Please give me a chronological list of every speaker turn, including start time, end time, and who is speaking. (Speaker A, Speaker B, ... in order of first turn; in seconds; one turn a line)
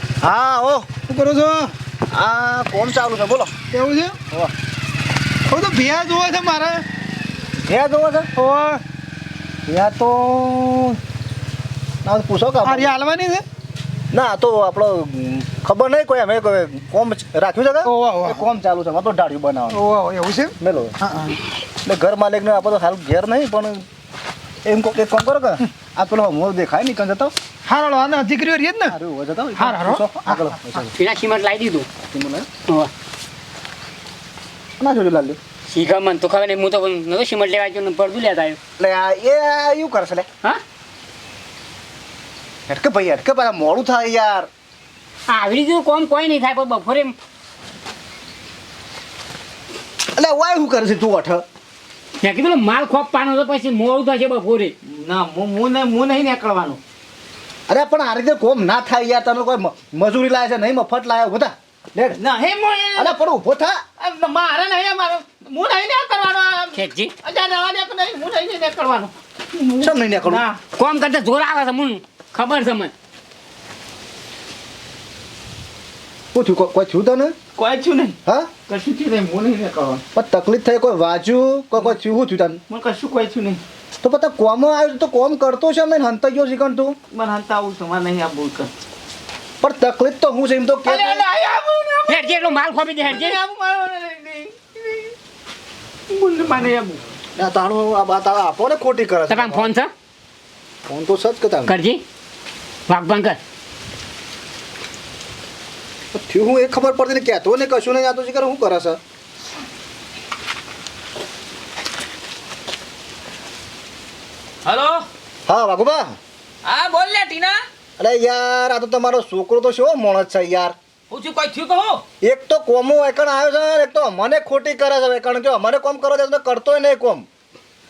Speaker A: 0.2-3.5
Speaker B: 3.7-4.2
Speaker B: 5.5-6.8
Speaker A: 7.6-8.3
Speaker B: 8.4-8.8
Speaker A: 9.7-11.0
Speaker A: 12.0-12.9
Speaker B: 12.7-13.4
Speaker A: 14.1-19.9
Speaker B: 17.9-18.4
Speaker B: 19.7-21.3
Speaker A: 20.6-20.9
Speaker A: 21.9-23.8
Speaker A: 24.6-27.3
Speaker B: 27.7-29.0
Speaker A: 28.9-30.9
Speaker B: 29.6-30.8
Speaker C: 30.9-31.9
Speaker A: 32.1-32.5
Speaker A: 34.8-35.4
Speaker C: 35.7-38.6
Speaker A: 38.8-40.3
Speaker A: 42.7-44.5
Speaker C: 45.3-47.1
Speaker A: 50.2-51.4
Speaker C: 52.2-54.7
Speaker D: 54.8-56.8
Speaker A: 57.7-62.2
Speaker D: 62.2-63.2
Speaker A: 63.0-63.8
Speaker D: 64.0-70.7
Speaker C: 66.8-67.1
Speaker A: 69.8-70.5
Speaker C: 70.7-72.9
Speaker A: 76.3-77.3
Speaker D: 77.6-78.2
Speaker D: 78.7-80.0
Speaker A: 80.2-82.6
Speaker D: 82.7-83.6
Speaker A: 84.0-87.0
Speaker D: 87.1-88.7
Speaker A: 89.6-91.3
Speaker D: 90.9-95.2
Speaker C: 92.1-93.4
Speaker D: 96.1-97.0
Speaker A: 97.4-99.7
Speaker C: 99.3-99.9
Speaker A: 100.9-101.8
Speaker C: 101.7-102.0
Speaker C: 102.9-103.4
Speaker A: 106.1-109.0
Speaker E: 114.7-115.0
Speaker A: 115.5-116.1
Speaker E: 116.7-117.6
Speaker A: 118.0-120.8
Speaker E: 121.1-122.0
Speaker A: 122.2-127.3